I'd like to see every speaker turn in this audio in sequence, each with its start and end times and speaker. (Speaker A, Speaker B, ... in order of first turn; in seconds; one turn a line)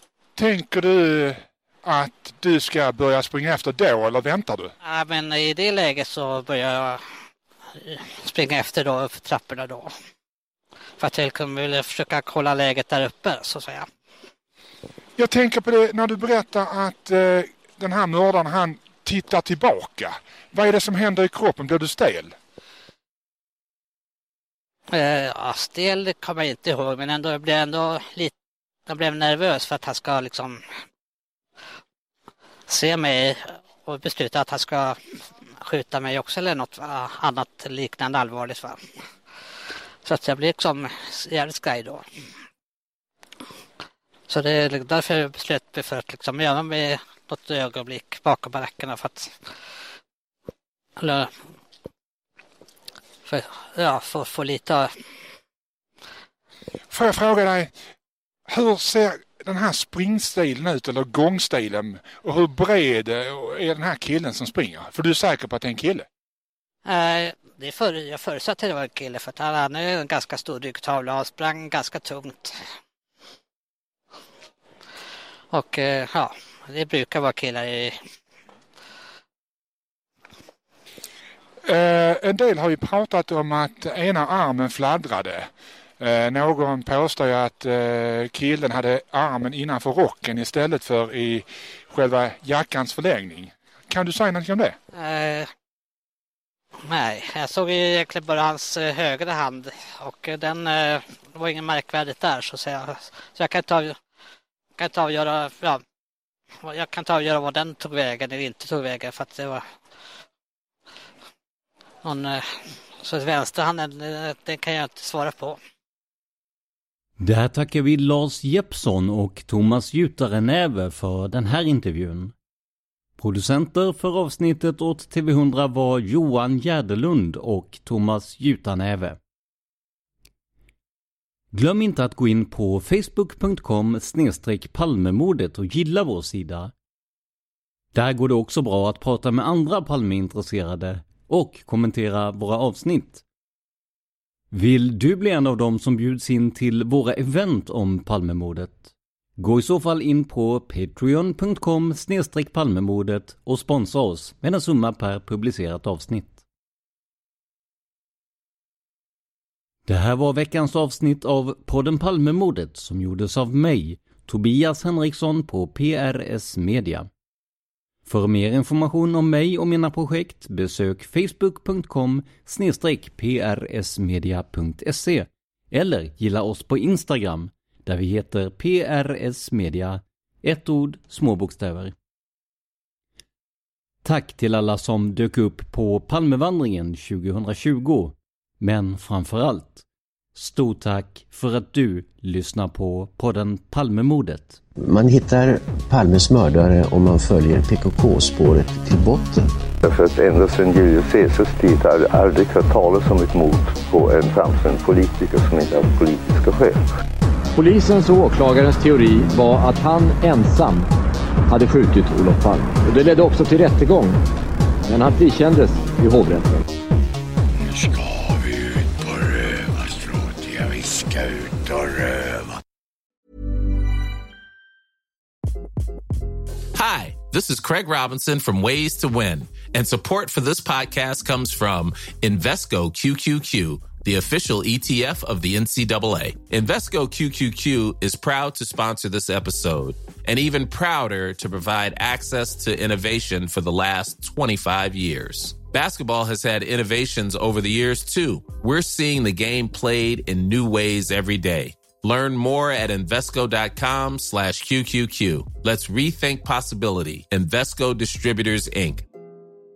Speaker A: 0.3-4.7
Speaker B: 4.8-7.0
Speaker B: 7.8-9.9
Speaker B: 11.0-13.9
Speaker A: 15.2-22.3
Speaker B: 24.9-28.3
Speaker B: 28.9-30.6
Speaker B: 32.7-35.0
Speaker B: 35.6-38.8
Speaker B: 40.0-42.0
Speaker B: 44.3-49.3
Speaker B: 51.0-51.3
Speaker B: 53.2-54.9
Speaker A: 56.9-57.7
Speaker A: 58.5-66.0
Speaker B: 66.8-72.6
Speaker B: 75.5-77.9
Speaker A: 81.6-94.8
Speaker B: 94.9-95.5
Speaker B: 96.9-104.0
Speaker B: 104.8-105.8
Speaker B: 106.6-109.6
Speaker B: 112.0-115.6
Speaker C: 117.2-122.3
Speaker C: 123.2-129.2
Speaker C: 131.5-136.7
Speaker C: 137.9-143.2
Speaker C: 144.5-156.4
Speaker C: 159.8-167.1
Speaker C: 168.0-181.9
Speaker C: 184.0-194.6
Speaker D: 194.8-199.5
Speaker E: 199.8-206.8
Speaker F: 207.5-210.9
Speaker F: 211.5-214.2
Speaker F: 214.9-216.6
Speaker G: 226.7-259.0